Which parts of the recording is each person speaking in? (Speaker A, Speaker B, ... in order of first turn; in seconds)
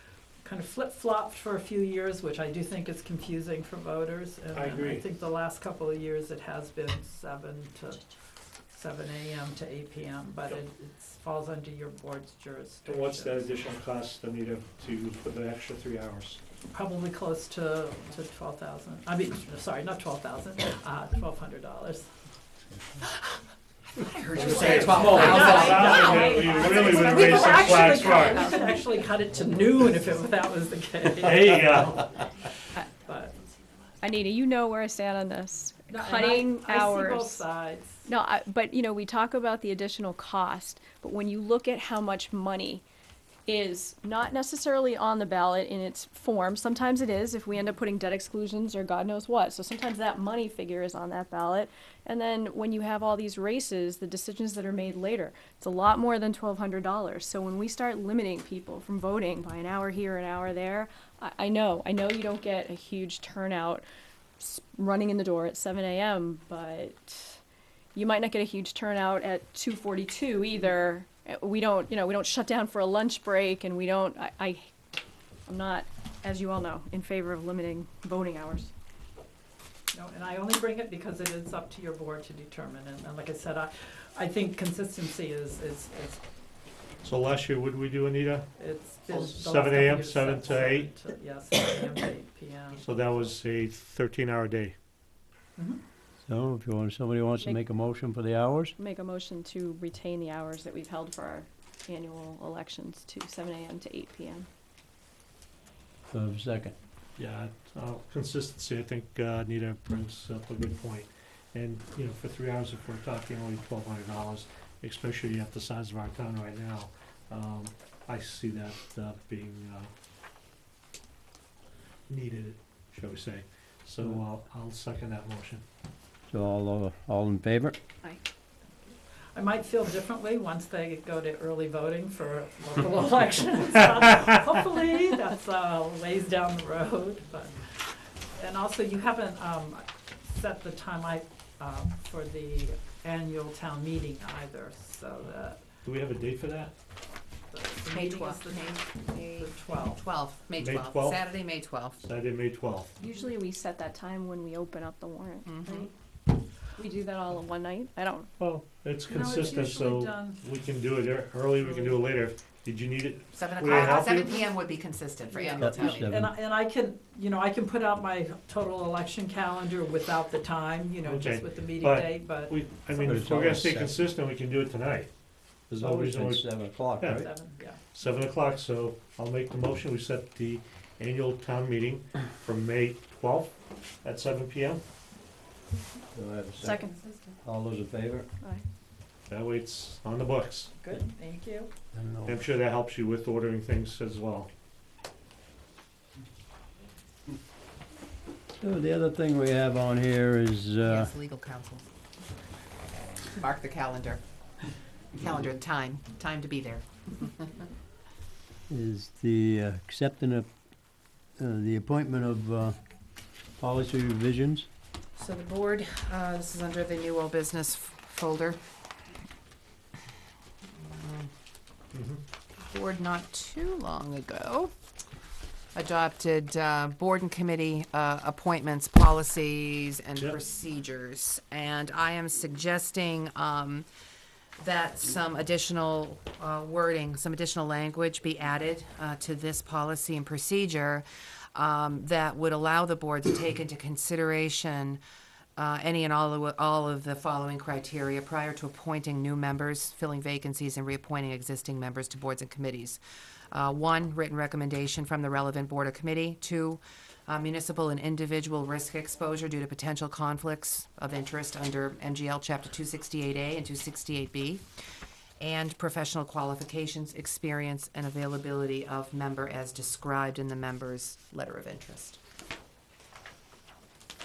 Speaker A: 0.4-8.0, 8.7-13.5, 16.7-22.1, 24.4-32.0, 32.8-33.4, 35.9-38.1, 79.9-86.2, 88.6-93.3, 129.3-137.8, 138.4-145.6, 147.5-150.1, 159.1-160.4, 161.6-161.9, 165.4-173.3, 177.1-177.8, 190.8-191.7
Speaker B: 4.5-5.1, 12.8-16.4, 24.4-28.5, 31.2-32.1, 87.0-88.5, 89.1-90.9, 92.8-94.8, 107.2-119.9, 122.1-125.6, 145.8-146.7, 150.6-151.2, 152.0-152.9, 158.4-164.5, 171.0-175.1, 175.7-177.3, 177.9-184.8, 189.3-190.7, 192.3-194.5, 221.9-222.2
Speaker C: 24.0-26.2, 147.9-152.0, 155.4-155.9, 163.3-166.1, 186.9-187.4, 200.8-201.9, 203.3-204.2, 205.2-207.7, 215.2-218.6, 220.8-221.3, 222.6-224.7, 225.8-233.9, 234.6-245.0, 245.6-253.0, 253.5-264.7, 265.4-272.2
Speaker D: 27.1-28.8, 34.0-37.4, 38.1-42.9, 43.5-63.9, 64.4-67.4, 67.9-74.7, 75.5-78.7, 98.8-104.5, 153.0-155.9, 156.8-158.3, 186.6-186.9
Speaker E: 96.3-98.8, 106.1-106.8, 126.3-127.8, 165.6-166.3, 173.0-174.0, 175.8-177.3, 186.2-186.8, 187.4-188.3, 191.9-192.4, 198.6-201.1, 208.7-210.5, 211.4-212.8, 213.6-214.7